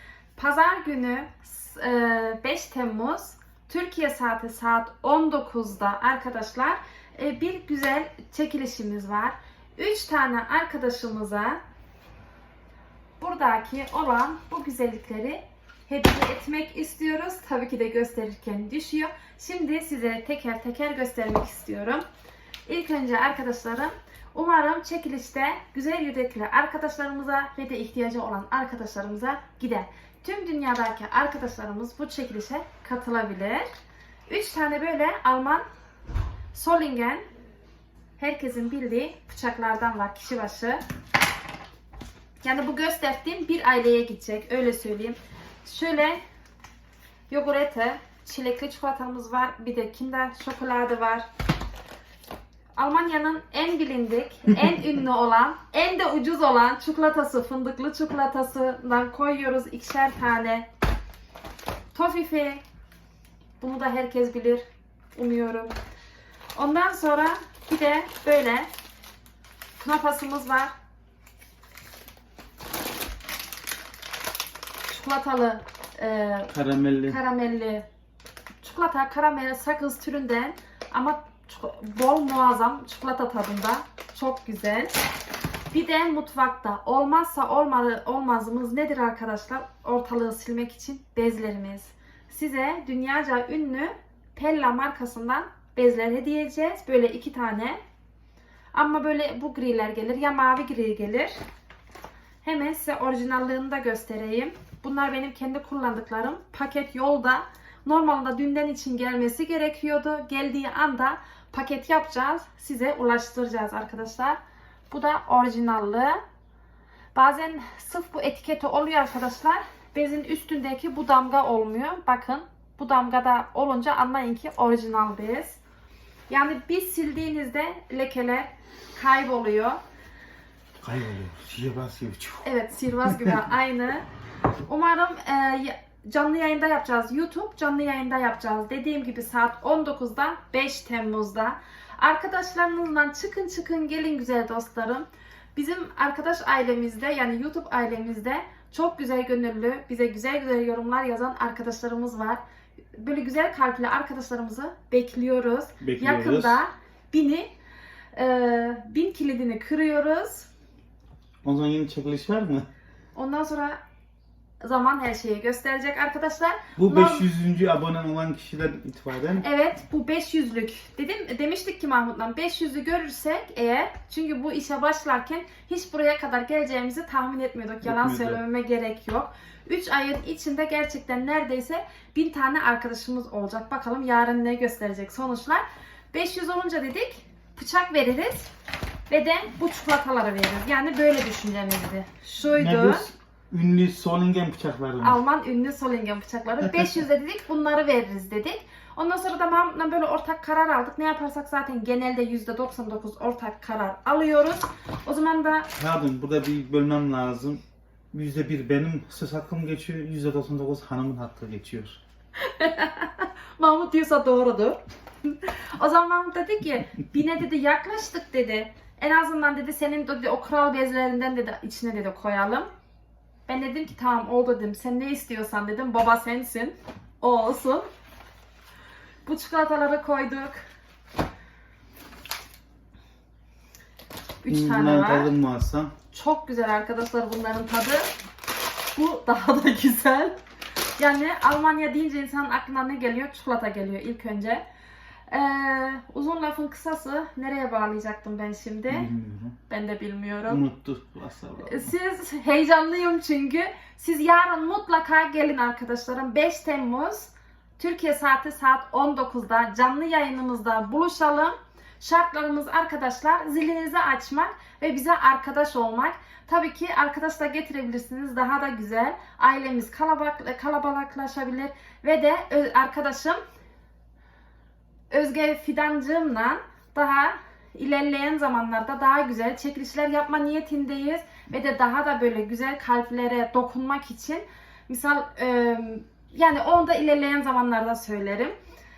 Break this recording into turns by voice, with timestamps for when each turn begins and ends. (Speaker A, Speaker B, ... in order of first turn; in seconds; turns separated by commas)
Speaker A: 0.4-11.6, Speaker A: 13.2-22.0, Speaker A: 22.7-33.7, Speaker A: 34.3-35.6, Speaker A: 36.5-37.2, Speaker A: 38.2-40.8, Speaker A: 42.4-46.2, Speaker A: 47.3-51.3, Speaker A: 52.8-60.7, Speaker A: 61.9-62.6, Speaker A: 63.6-64.6, Speaker A: 65.2-65.8, Speaker A: 66.5-68.7, Speaker A: 69.8-70.7, Speaker A: 74.9-76.5, Speaker B: 76.5-77.2, Speaker A: 77.1-77.9, Speaker A: 78.6-85.0, Speaker A: 85.7-97.8, Speaker A: 98.7-101.4, Speaker A: 102.4-114.4, Speaker A: 114.9-116.2, Speaker A: 117.2-125.6, Speaker A: 126.3-129.8, Speaker B: 130.8-132.5, Speaker A: 132.4-134.1, Speaker B: 133.1-133.4, Speaker A: 134.7-152.4, Speaker A: 152.9-157.5, Speaker B: 155.8-156.6, Speaker A: 158.1-160.5, Speaker B: 161.4-162.7, Speaker A: 163.1-163.8, Speaker A: 164.6-167.3, Speaker B: 166.8-169.5, Speaker A: 169.4-188.5, Speaker B: 177.8-178.4, Speaker A: 189.1-193.1, Speaker B: 192.5-195.2, Speaker A: 195.0-205.7, Speaker B: 205.8-212.0, Speaker A: 212.4-222.7, Speaker A: 223.5-227.9, Speaker A: 229.2-230.6, Speaker A: 234.4-235.3, Speaker B: 234.5-235.9, Speaker A: 236.1-238.1, Speaker A: 238.9-240.4, Speaker A: 241.0-244.6, Speaker A: 245.3-249.1, Speaker B: 248.9-249.6, Speaker A: 249.7-250.6, Speaker B: 250.5-251.9, Speaker A: 251.6-273.4, Speaker A: 275.1-288.5